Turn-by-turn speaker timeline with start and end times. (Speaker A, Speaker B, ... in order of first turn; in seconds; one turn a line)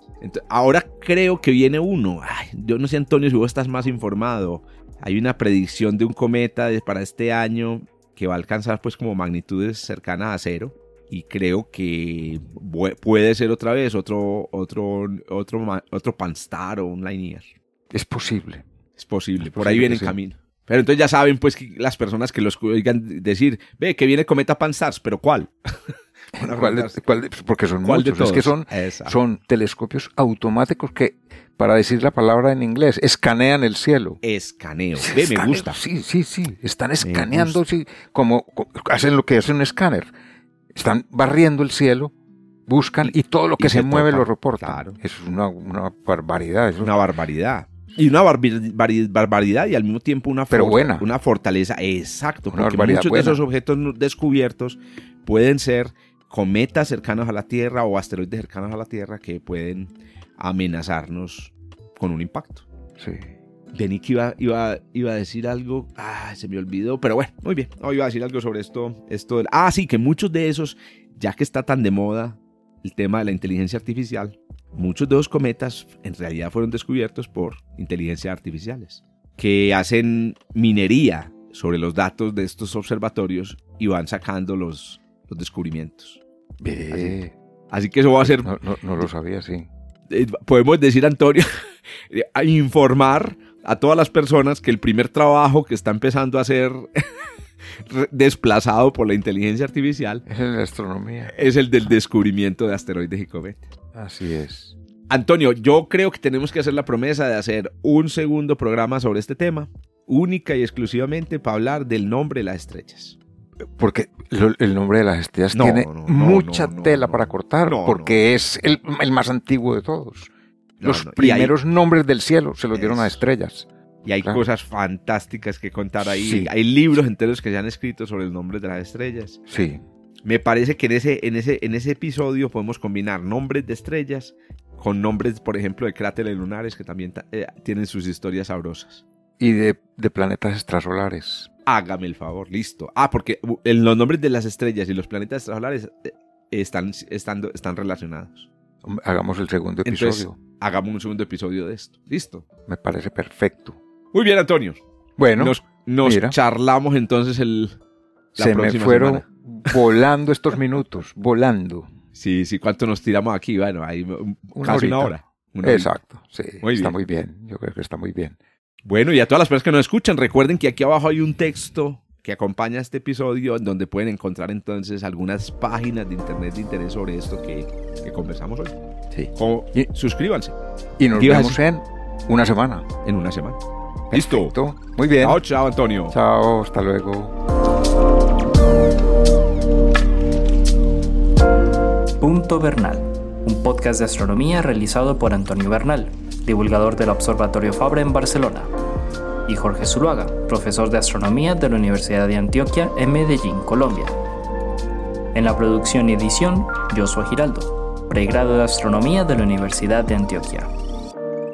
Speaker A: 0.2-17.5
Speaker B: 17.9-18.6
Speaker A: 19.0-25.8
Speaker B: 19.4-20.1
Speaker A: 26.3-27.0
Speaker B: 26.4-34.2
Speaker A: 27.8-29.2
Speaker A: 34.2-35.8
Speaker B: 35.0-40.1
Speaker A: 37.0-37.6
Speaker B: 40.7-42.1
Speaker B: 42.7-46.9
Speaker A: 43.0-45.0
Speaker A: 46.8-62.7
Speaker B: 50.5-51.1
Speaker B: 52.5-53.4
Speaker B: 63.0-63.3
Speaker A: 63.7-86.2
Speaker B: 86.6-87.3
Speaker A: 86.9-87.2
Speaker A: 87.7-88.5
Speaker B: 88.2-89.7
Speaker A: 90.1-91.5
Speaker A: 92.1-97.1
Speaker A: 97.8-100.2
Speaker B: 100.3-101.5
Speaker A: 101.3-103.7
Speaker B: 104.0-104.8
Speaker A: 105.1-113.2
Speaker B: 113.7-123.7
Speaker A: 115.5-118.2
Speaker A: 120.8-121.5
Speaker A: 122.7-123.2
Speaker A: 124.0-129.4
Speaker B: 126.0-126.5
Speaker B: 129.5-129.8
Speaker A: 130.2-139.1
Speaker B: 139.4-141.5
Speaker A: 141.7-148.5
Speaker B: 148.8-150.4
Speaker A: 149.8-152.4
Speaker B: 152.7-153.8
Speaker A: 154.1-154.8
Speaker B: 155.2-156.4
Speaker A: 155.4-157.8
Speaker A: 158.4-159.7
Speaker B: 158.4-161.9
Speaker A: 162.2-165.9
Speaker B: 164.6-168.4
Speaker A: 166.6-166.9
Speaker A: 168.8-178.8
Speaker B: 179.2-179.9
Speaker A: 179.3-180.6
Speaker B: 181.0-182.9
Speaker A: 181.1-181.6
Speaker A: 183.0-183.6
Speaker A: 184.1-184.6
Speaker B: 184.1-185.4
Speaker A: 185.2-186.2
Speaker B: 186.1-187.3
Speaker C: 192.2-198.7
Speaker C: 199.5-204.1
Speaker C: 205.3-210.7